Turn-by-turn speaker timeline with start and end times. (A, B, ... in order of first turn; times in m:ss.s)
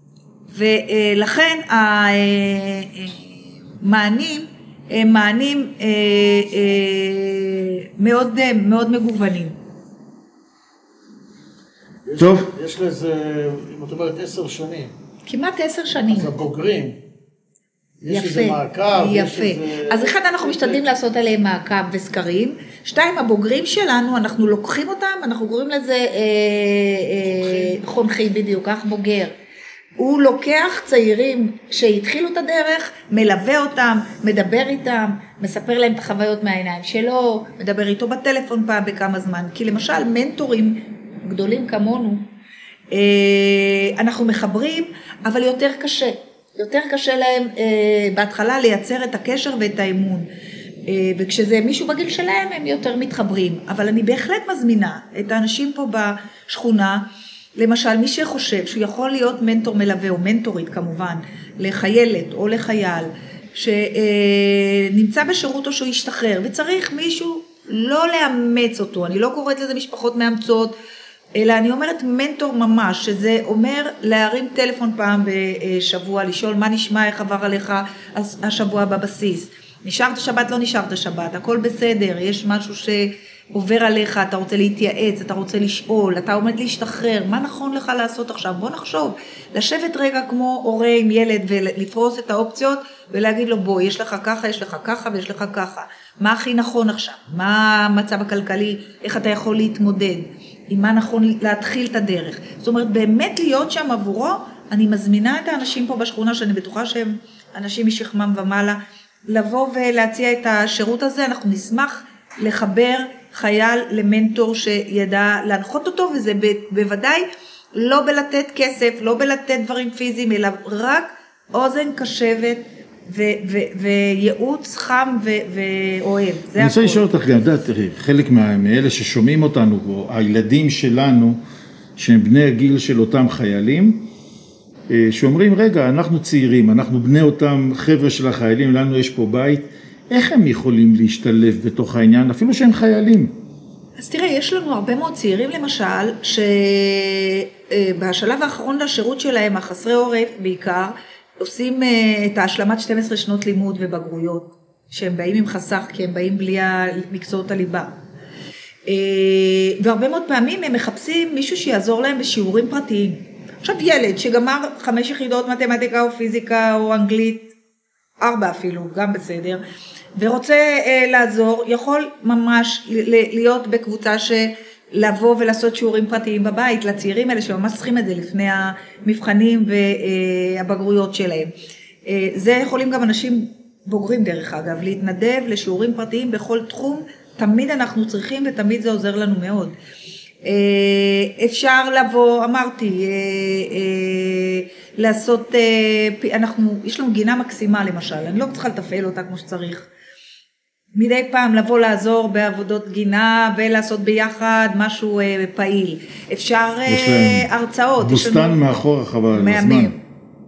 0:00.5-0:09.6 A
0:12.0-0:14.9 B
0:12.2-0:12.5 C
0:15.2-0:16.3 A
0:16.1-0:16.9 B
0:18.0-0:20.9 B
0:18.1-0:29.3 A
0:27.3-0:27.8 B
0:30.0-0:42.2 A
0:42.9-0:50.3 A
0:50.9-1:10.7 A
1:11.4-2:07.0 A
2:06.6-2:11.4 C
2:12.0-2:14.0 C
2:14.9-2:23.3 C
2:24.0-2:37.9 A
2:38.9-2:47.4 A
2:48.2-2:49.6 A
2:50.2-3:01.5 A
3:02.0-3:09.7 A
3:10.4-3:19.9 A
3:20.9-3:28.6 A
3:26.9-3:27.5 C
3:28.0-3:29.9 C
3:29.3-3:30.0 A